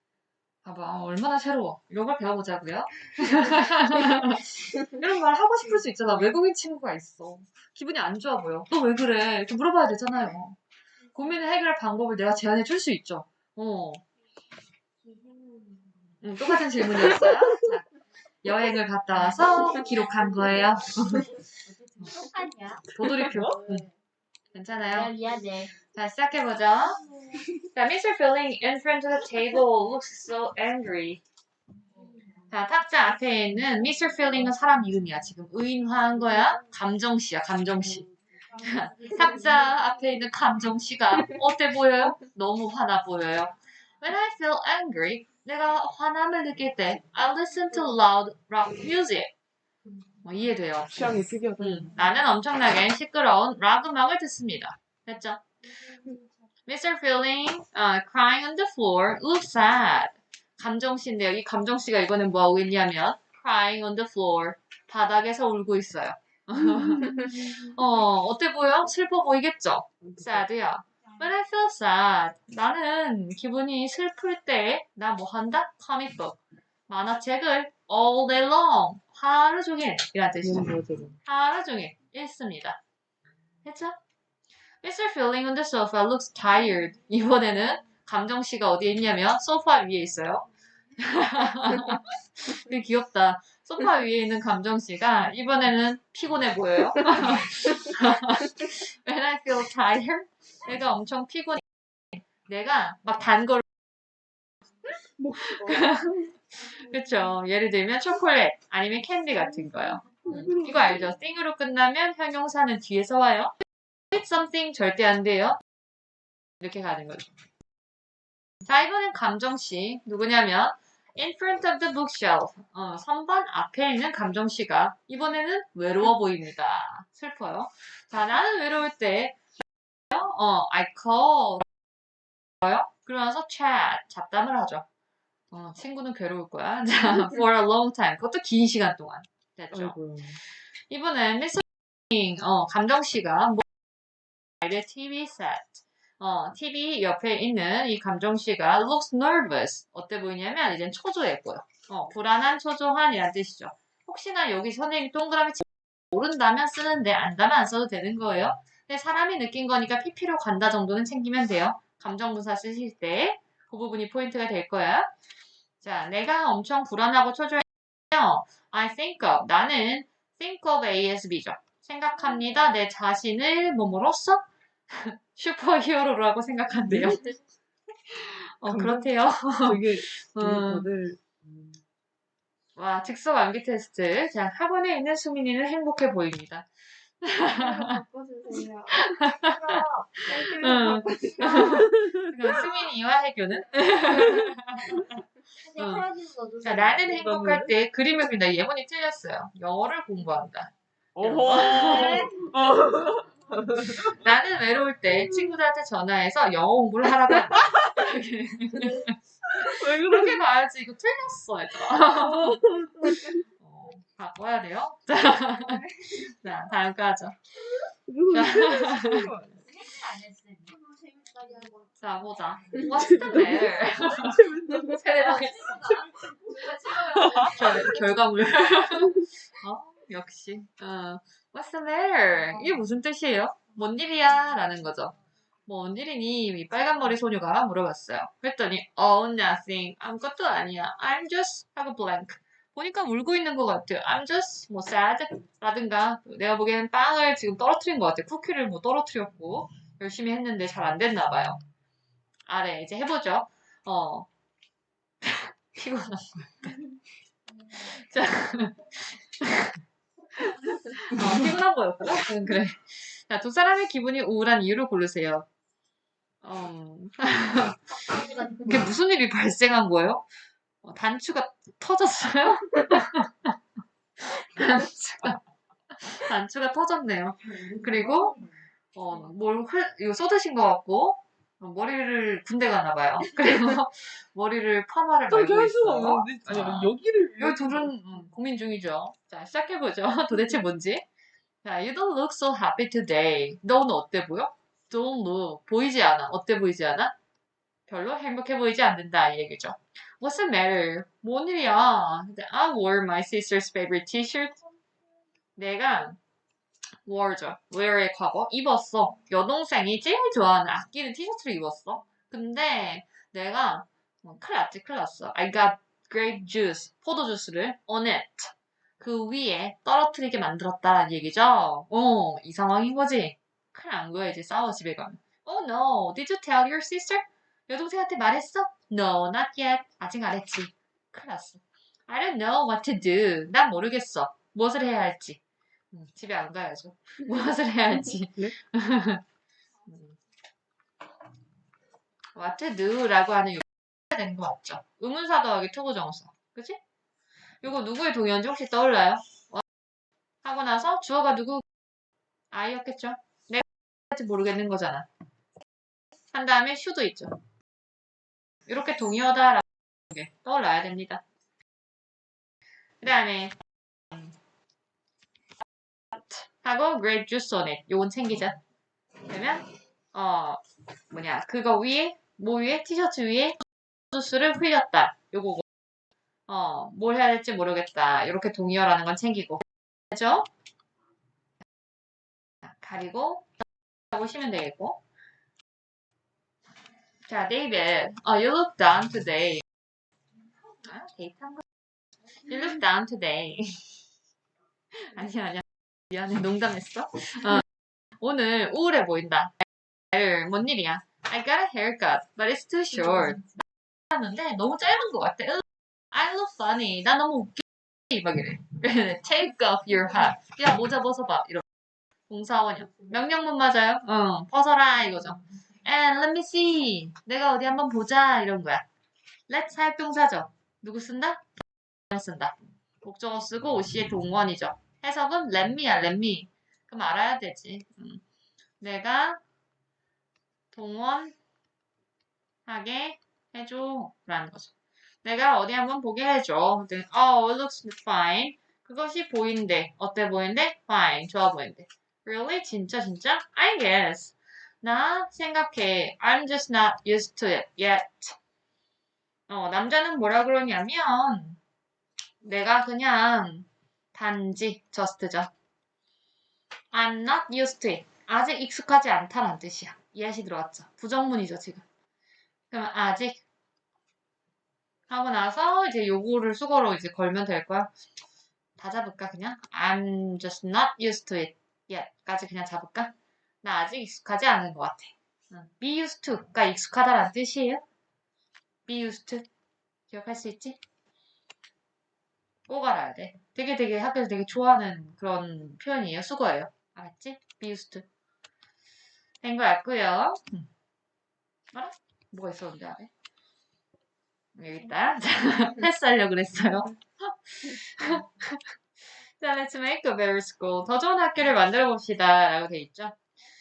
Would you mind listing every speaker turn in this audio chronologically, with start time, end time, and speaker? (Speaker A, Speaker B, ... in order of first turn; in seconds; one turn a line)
Speaker A: 0.6-10.6
Speaker A: 11.1-14.0
Speaker B: 15.0-16.1
Speaker A: 16.2-17.9
Speaker A: 18.4-21.3
Speaker B: 21.2-23.9
Speaker A: 22.9-23.9
Speaker C: 23.0-23.5
Speaker A: 24.5-25.1
Speaker B: 24.9-25.7
Speaker A: 25.9-27.0
Speaker A: 27.7-31.2
Speaker A: 32.5-38.1
Speaker B: 38.6-39.7
Speaker A: 38.6-49.3
Speaker A: 50.2-51.0
Speaker C: 50.9-51.9
Speaker A: 51.6-55.5
Speaker A: 56.6-80.7
Speaker C: 80.4-81.2
Speaker A: 81.2-82.8
Speaker A: 83.6-84.0
Speaker A: 84.8-103.7
Speaker C: 105.2-106.1
Speaker A: 105.6-113.5
Speaker C: 110.2-111.2
Speaker A: 114.1-115.6
Speaker A: 116.6-117.3
Speaker A: 118.6-129.4
Speaker A: 130.1-131.7
Speaker A: 132.6-134.8
Speaker A: 135.5-140.0
Speaker C: 139.7-140.4
Speaker A: 140.9-143.7
Speaker A: 144.6-165.1
Speaker A: 165.8-177.3
Speaker C: 176.9-177.2
Speaker A: 178.1-180.9
Speaker C: 178.6-181.8
Speaker A: 182.8-186.7
Speaker A: 187.2-188.0
Speaker B: 187.4-191.9
Speaker A: 188.9-195.2
Speaker C: 191.6-192.2
Speaker B: 195.5-197.3
Speaker A: 195.8-196.0
Speaker A: 196.6-202.4
Speaker C: 197.1-197.7
Speaker C: 201.1-204.2
Speaker B: 201.6-202.4
Speaker A: 204.1-217.6
Speaker C: 209.5-210.4
Speaker C: 212.2-213.4
Speaker C: 217.9-219.6
Speaker A: 218.3-219.3
Speaker B: 219.7-221.9
Speaker A: 222.0-226.0
Speaker C: 223.2-225.0
Speaker B: 225.2-228.1
Speaker A: 226.7-235.1
Speaker C: 227.2-227.5
Speaker A: 235.7-251.6
Speaker A: 252.5-254.3
Speaker A: 255.2-256.8
Speaker A: 257.7-259.8
Speaker A: 260.4-265.4
Speaker A: 266.4-270.2
Speaker B: 268.2-268.6
Speaker A: 270.8-273.5
Speaker A: 274.3-275.4
Speaker A: 275.9-278.4
Speaker A: 278.9-291.1
Speaker C: 285.3-287.9
Speaker A: 291.6-297.1
Speaker A: 297.9-304.6
Speaker A: 305.6-306.2
Speaker A: 307.0-335.4
Speaker A: 335.9-339.2
Speaker A: 339.9-340.1
Speaker A: 342.3-346.8
Speaker A: 347.6-349.6
Speaker A: 350.4-351.6
Speaker A: 352.5-355.1
Speaker A: 356.3-357.4
Speaker A: 358.7-361.2
Speaker A: 363.0-363.5
Speaker A: 366.1-368.6
Speaker A: 369.2-373.6
Speaker A: 374.1-375.6
Speaker A: 376.5-380.5
Speaker A: 382.6-383.5
Speaker A: 384.1-385.0
Speaker A: 387.3-389.6
Speaker A: 390.8-391.6
Speaker A: 392.4-393.9
Speaker A: 394.9-397.6
Speaker A: 398.2-399.5
Speaker A: 400.1-411.6
Speaker A: 412.3-418.8
Speaker A: 419.5-421.4
Speaker A: 422.1-428.2
Speaker A: 428.8-429.4
Speaker A: 430.7-431.4
Speaker A: 432.6-434.7
Speaker A: 435.2-448.4
Speaker A: 449.5-451.6
Speaker A: 452.4-455.5
Speaker A: 456.9-461.8
Speaker A: 462.7-463.4
Speaker A: 465.1-467.9
Speaker A: 468.8-477.8
Speaker A: 478.9-479.5
Speaker A: 480.1-480.8
Speaker A: 482.7-488.1
Speaker A: 489.4-490.7
Speaker A: 491.7-493.1
Speaker A: 494.5-498.7
Speaker A: 499.4-503.2